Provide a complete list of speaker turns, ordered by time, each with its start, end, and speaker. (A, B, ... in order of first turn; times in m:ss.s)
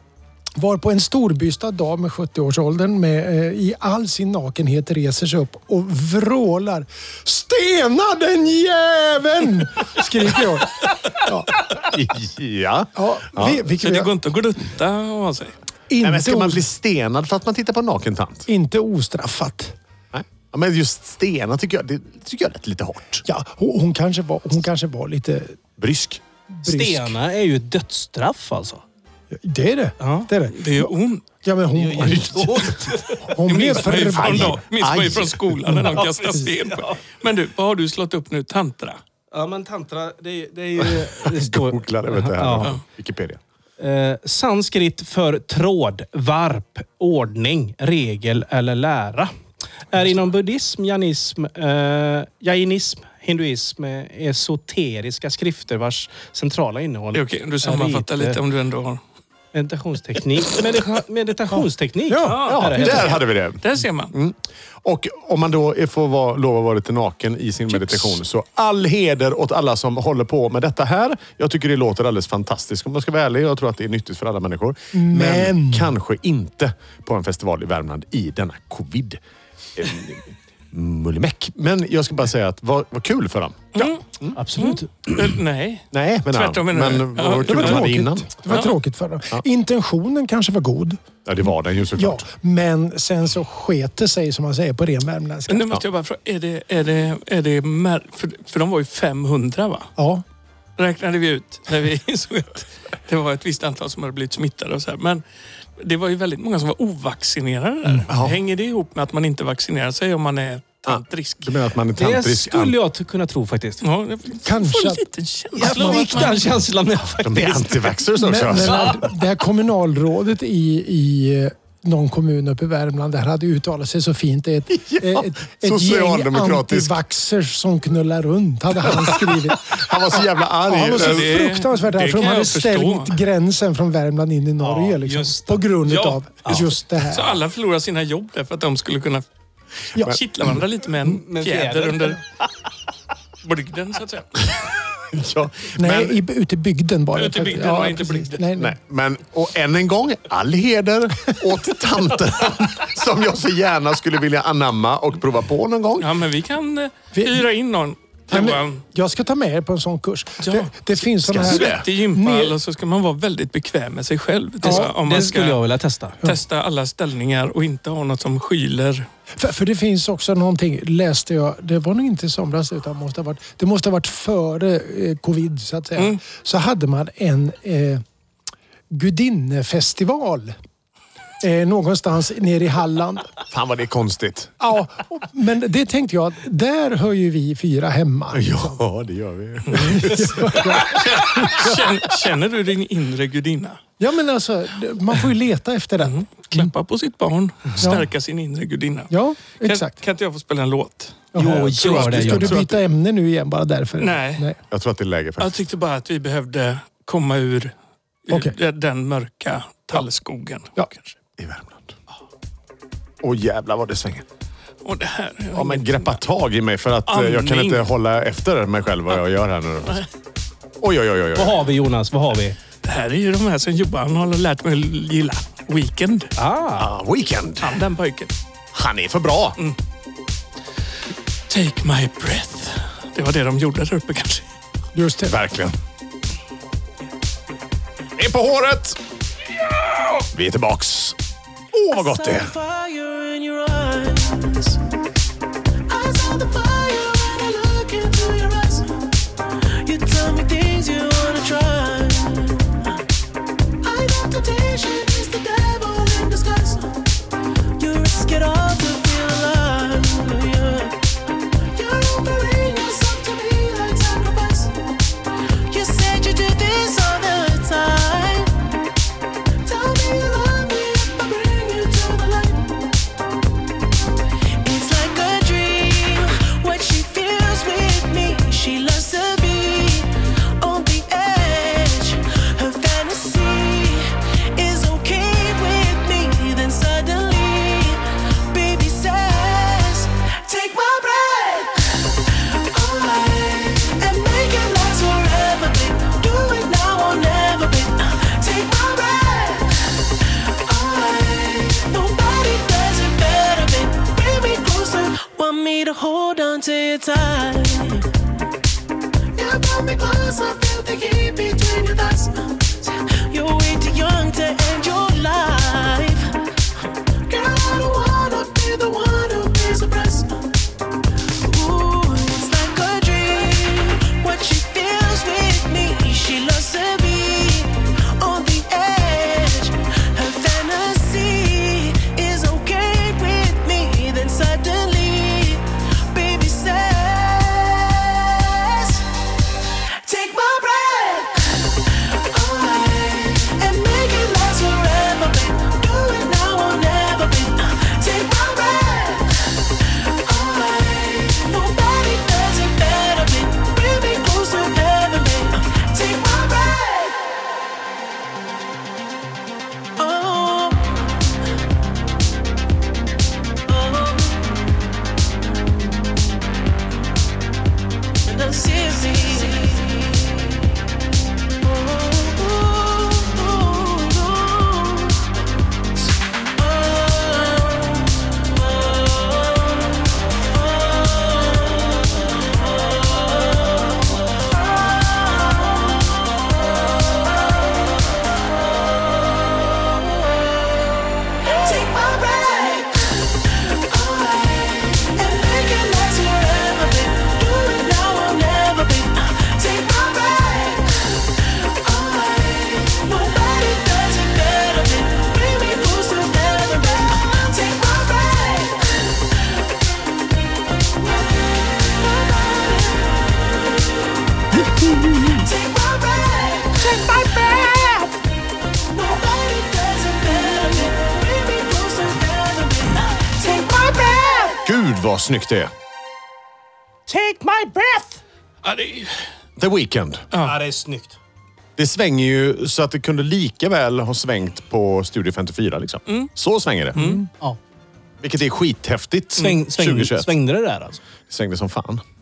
0:00.6-0:11.6 A
0:11.9-0:13.6 B
0:12.9-0:14.1 A
0:13.8-0:15.5 C
0:15.9-0:16.7 A
0:16.0-0:18.5 B
0:18.5-0:19.8 A
0:20.1-0:23.2 B
0:23.2-0:25.6 A
0:25.8-0:26.2 B
0:26.5-0:27.2 A
0:26.6-0:28.8 D
0:29.3-0:34.6 A
0:30.0-0:30.3 D
0:30.5-0:31.2 C
0:31.7-0:33.2 D
0:32.0-0:32.7 B
0:33.4-0:39.0 C
0:34.0-0:35.8 B
0:35.9-0:37.0 D
0:39.3-0:42.7 D
0:40.8-0:43.4 B
0:43.8-0:49.3 D
0:49.9-0:58.4 D
0:57.1-0:59.0 C
0:59.5-1:03.2 D
1:02.1-1:02.5 A
1:02.2-1:04.1 C
1:02.4-1:19.2 B
1:07.7-1:08.2 C
1:14.9-1:15.9 A
1:19.8-1:24.4 B
1:23.7-1:24.0 C
1:24.4-1:25.3 D
1:24.6-1:28.0 C
1:25.9-1:28.6 B
1:27.4-1:31.0 A
1:28.5-1:28.8 C
1:31.2-1:32.2 B
1:32.0-1:35.7 A
1:35.5-1:39.9 C
1:40.0-1:40.2 A
1:40.8-1:45.2 C
1:45.8-1:51.6 C
1:48.1-1:48.4 B
1:50.9-1:52.8 B
1:52.0-1:53.8 D
1:53.8-1:56.4 C
1:54.4-1:56.4 A
1:55.6-1:58.0 D
1:57.2-1:59.0 B
1:58.2-2:17.4 A
2:04.7-2:07.0 B
2:08.9-2:11.4 B
2:10.9-2:13.1 C
2:14.6-2:15.7 D
2:15.8-2:19.2 C
2:20.0-2:22.2 C
2:21.0-2:22.2 D
2:23.4-2:24.4 C
2:25.1-2:26.2 B
2:25.8-2:28.8 A
2:27.1-2:28.4 C
2:28.6-2:36.1 B
2:36.0-2:38.8 C
2:37.1-2:37.5 A
2:38.3-2:42.6 A
2:40.4-2:40.7 C
2:41.2-2:41.9 B
2:41.3-2:45.6 C
2:44.6-2:45.4 A
2:44.6-2:46.2 D
2:46.2-2:49.1 C
2:49.4-2:58.0 A
2:58.9-3:00.6 A
3:01.4-3:03.3 A
3:03.5-3:04.5 B
3:04.6-3:08.8 A
3:08.3-3:11.4 B
3:09.7-3:11.9 A
3:10.6-3:13.8 C
3:14.0-3:16.7 A
3:16.0-3:22.2 C
3:17.8-3:18.1 A
3:19.1-3:19.9 A
3:21.3-3:24.6 A
3:21.4-3:22.6 D
3:21.4-3:22.8 B
3:24.0-3:24.5 C
3:24.7-3:25.6 B
3:25.4-3:27.7 C
3:28.3-3:31.1 C
3:28.3-3:28.6 A
3:31.4-3:31.9 B
3:33.2-3:34.2 B
3:34.8-3:36.2 C
3:35.5-3:40.0 B
3:37.1-3:37.9 C
3:40.8-3:41.6 B
3:41.4-3:42.6 D
3:42.8-3:46.3 C
3:46.4-3:46.9 D
3:46.8-3:47.8 B
3:47.6-3:48.3 C
3:48.7-3:49.6 B
3:51.5-3:54.4 C
3:54.9-3:55.4 A
3:55.3-3:55.8 B
3:58.2-3:59.0 B
4:00.2-4:01.2 B
4:01.7-4:02.5 B
4:01.9-4:04.8 E
4:05.9-4:08.9 E
4:09.8-4:13.0 E
4:13.8-4:16.9 E
4:17.8-4:21.0 E
4:21.5-4:24.8 E
4:25.7-4:28.5 E
4:29.6-4:32.8 E
4:34.6-5:08.1 E
5:09.4-5:16.3 E
5:17.3-5:20.3 E
5:21.3-5:39.1 E
5:40.0-5:57.3 E
6:00.0-6:01.1 E
6:03.7-6:04.6 E
6:08.2-6:10.6 E
6:11.6-6:15.2 E
6:16.5-6:27.8 E
6:28.8-6:49.8 E
6:51.0-6:54.0 E
6:55.3-6:57.1 E
6:56.8-6:58.1 D
6:58.8-7:04.6 E
7:03.7-7:04.6 D
7:04.6-7:05.7 B
7:07.1-7:08.2 D
7:08.6-7:09.2 C
7:09.6-7:10.2 B
7:10.4-7:11.2 D
7:11.8-7:17.0 B
7:16.9-7:17.2 C
7:16.9-7:17.3 A
7:18.2-7:20.3 B
7:19.4-7:21.0 D
7:21.3-7:22.0 B